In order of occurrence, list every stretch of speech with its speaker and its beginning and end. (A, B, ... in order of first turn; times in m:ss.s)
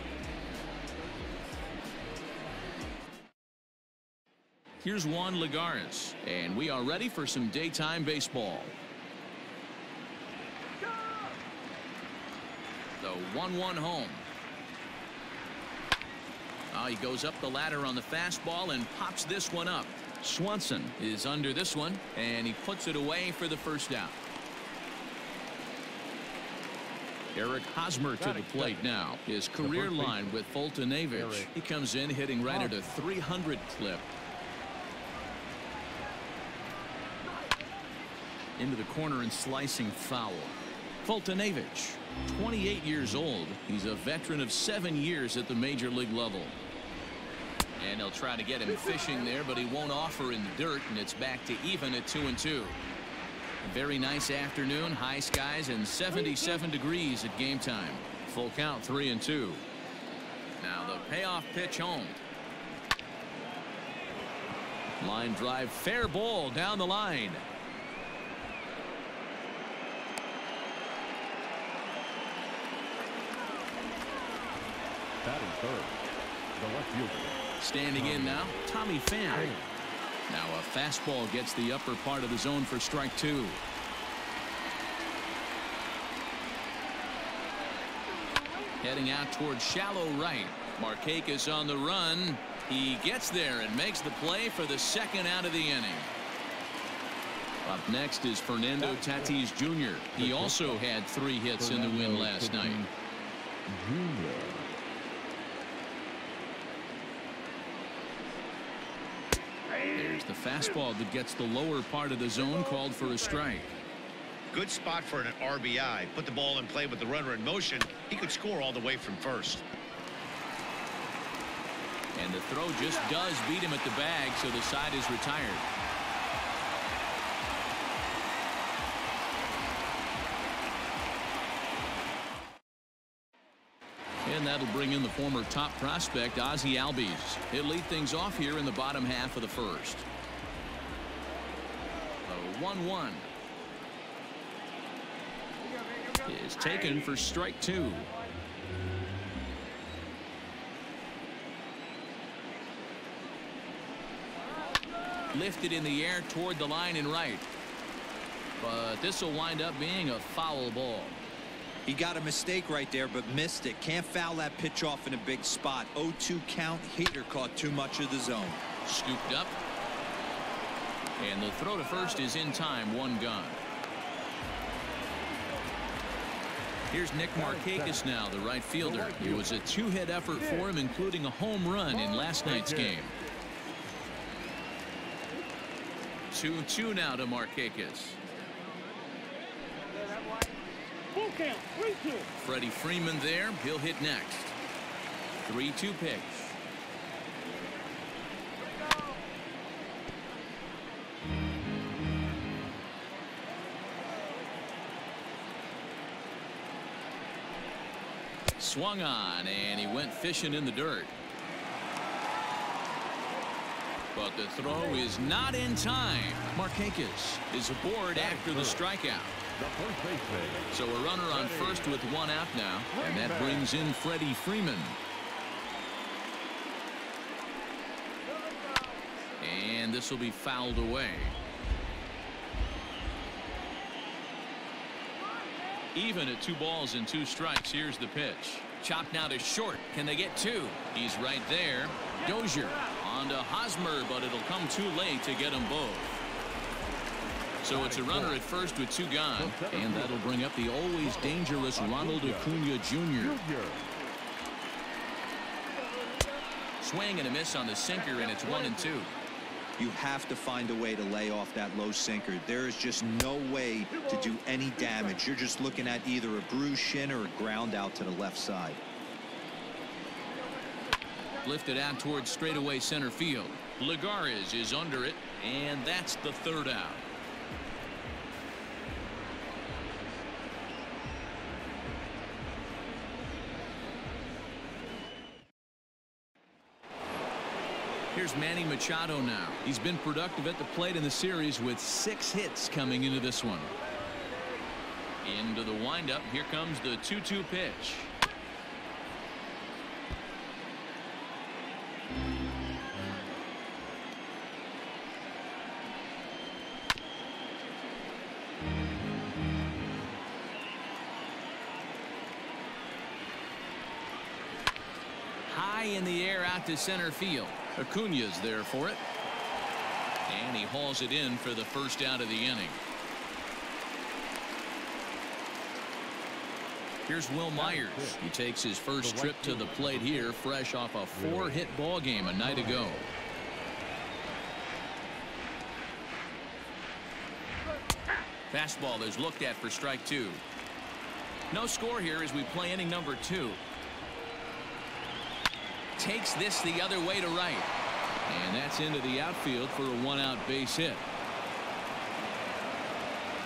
0:04.8-0:08.7 A
0:13.0-0:14.2 A
0:16.7-0:24.2 A
0:27.3-0:34.1 A
0:28.2-0:28.9 B
0:29.6-0:30.4 B
0:31.1-0:31.5 B
0:32.4-0:32.8 B
0:38.6-0:46.6 A
0:47.8-0:52.8 A
0:53.6-0:59.6 A
1:00.6-1:02.2 A
1:05.0-1:07.4 A
1:15.2-1:16.0 B
1:16.5-1:18.5 B
1:17.6-1:19.5 A
1:19.3-1:19.7 B
1:20.3-1:23.6 A
1:28.8-1:36.1 A
1:37.6-1:42.8 A
1:38.8-1:39.4 B
1:40.1-1:40.9 B
1:41.6-1:42.9 B
1:43.7-1:44.6 B
1:49.9-1:53.7 A
1:52.4-1:53.3 C
1:54.5-1:59.6 D
2:02.1-2:05.6 A
2:14.2-2:20.0 A
2:22.2-2:23.3 A
2:26.2-2:28.1 A
2:35.3-2:37.4 A
2:38.6-2:41.2 A
2:41.8-2:48.6 E
2:48.8-2:49.5 A
2:51.2-2:53.6 A
2:56.9-3:03.1 A
2:57.3-2:58.0 B
2:58.8-2:59.6 B
3:00.3-3:00.7 B
3:01.9-3:03.0 B
3:06.3-3:08.2 A
3:11.1-3:12.3 C
3:12.4-3:14.5 A
3:15.4-3:16.6 A
3:28.6-3:31.1 A
3:34.1-3:39.4 A
3:38.1-3:38.9 B
3:39.6-3:42.0 B
3:40.7-3:45.0 A
3:42.9-3:43.7 B
3:49.4-3:51.4 A
3:55.9-4:06.2 A
4:07.6-4:13.4 A
4:07.7-4:08.4 B
4:09.4-4:10.3 B
4:11.0-4:12.5 B
4:13.2-4:13.9 B
4:16.8-4:19.1 A
4:17.9-4:18.9 C
4:19.8-4:28.8 E
4:23.9-4:25.2 C
4:31.4-4:37.0 A
4:48.1-4:53.7 A
4:55.2-4:58.1 A
5:15.5-5:19.0 A
5:20.3-5:22.8 A
5:27.1-5:33.0 A
5:27.5-5:28.2 B
5:29.0-5:30.4 B
5:31.1-5:31.8 B
5:32.4-5:33.1 B
5:38.5-5:40.4 A
5:41.5-5:43.6 A
5:46.0-5:47.7 A
5:48.3-5:51.0 A